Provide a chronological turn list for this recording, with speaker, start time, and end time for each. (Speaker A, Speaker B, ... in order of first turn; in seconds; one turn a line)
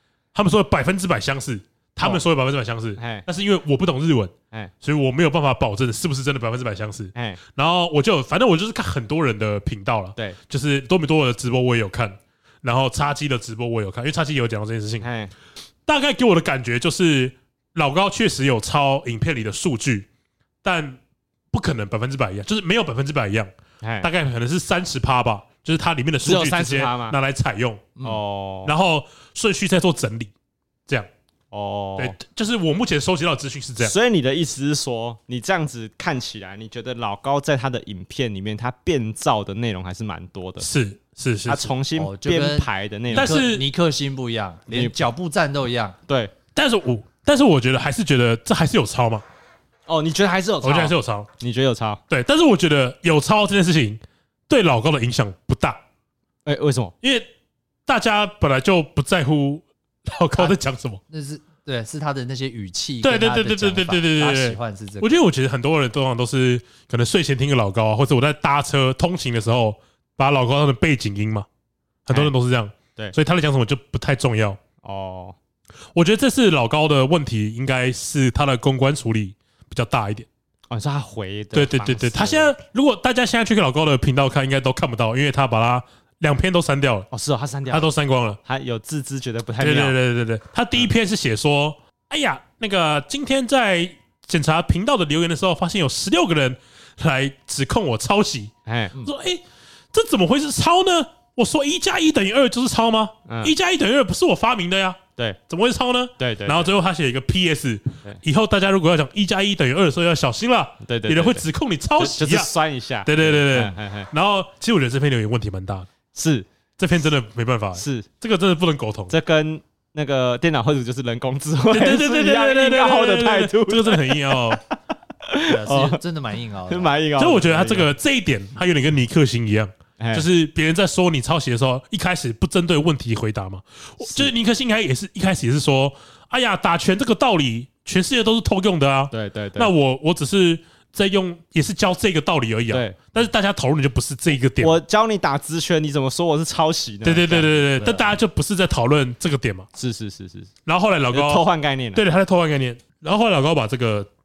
Speaker A: 0.3-15.1
Speaker B: 3.0-3.2
Speaker B: 7.1-7.4
Speaker B: 15.0-15.3
Speaker A: 15.8-20.1
Speaker A: 20.6-21.0
Speaker A: 21.5-23.5
Speaker B: 23.8-24.1
Speaker A: 24.0-27.9
Speaker B: 26.2-27.2
Speaker B: 28.0-28.7
Speaker A: 28.6-30.3
Speaker B: 31.5-32.1
Speaker A: 32.0-33.9
Speaker B: 33.8-40.7
Speaker A: 40.6-41.7
Speaker B: 41.5-43.4
Speaker C: 41.9-46.0
Speaker A: 43.1-43.6
Speaker B: 44.7-45.0
Speaker B: 46.1-46.3
Speaker A: 46.5-49.2
Speaker B: 49.9-52.0
Speaker A: 50.6-51.3
Speaker A: 52.1-55.8
Speaker B: 56.4-56.9
Speaker A: 57.0-57.3
Speaker A: 57.9-61.0
Speaker C: 61.1-65.1
Speaker A: 63.0-71.5
Speaker A: 72.0-74.6
Speaker B: 74.8-75.3
Speaker A: 75.9-80.3
Speaker B: 80.7-82.5
Speaker A: 81.5-87.1
Speaker B: 87.1-90.0
Speaker A: 87.7-88.4
Speaker A: 89.6-99.4
Speaker B: 98.7-99.0
Speaker A: 99.9-112.5
Speaker B: 103.2-103.5
Speaker B: 106.2-106.7
Speaker B: 110.8-111.4
Speaker B: 112.0-114.1
Speaker A: 113.0-115.9
Speaker B: 116.1-116.5
Speaker A: 116.8-119.1
Speaker B: 117.8-118.1
Speaker B: 119.1-124.6
Speaker A: 121.7-124.6
Speaker B: 125.2-126.0
Speaker C: 125.5-126.9
Speaker B: 126.7-127.9
Speaker A: 127.2-144.8
Speaker B: 130.0-130.2
Speaker B: 134.0-134.3
Speaker B: 139.1-139.7
Speaker B: 142.7-143.2
Speaker B: 144.6-148.1
Speaker A: 147.0-149.7
Speaker B: 149.7-150.5
Speaker A: 150.7-154.1
Speaker B: 151.1-152.0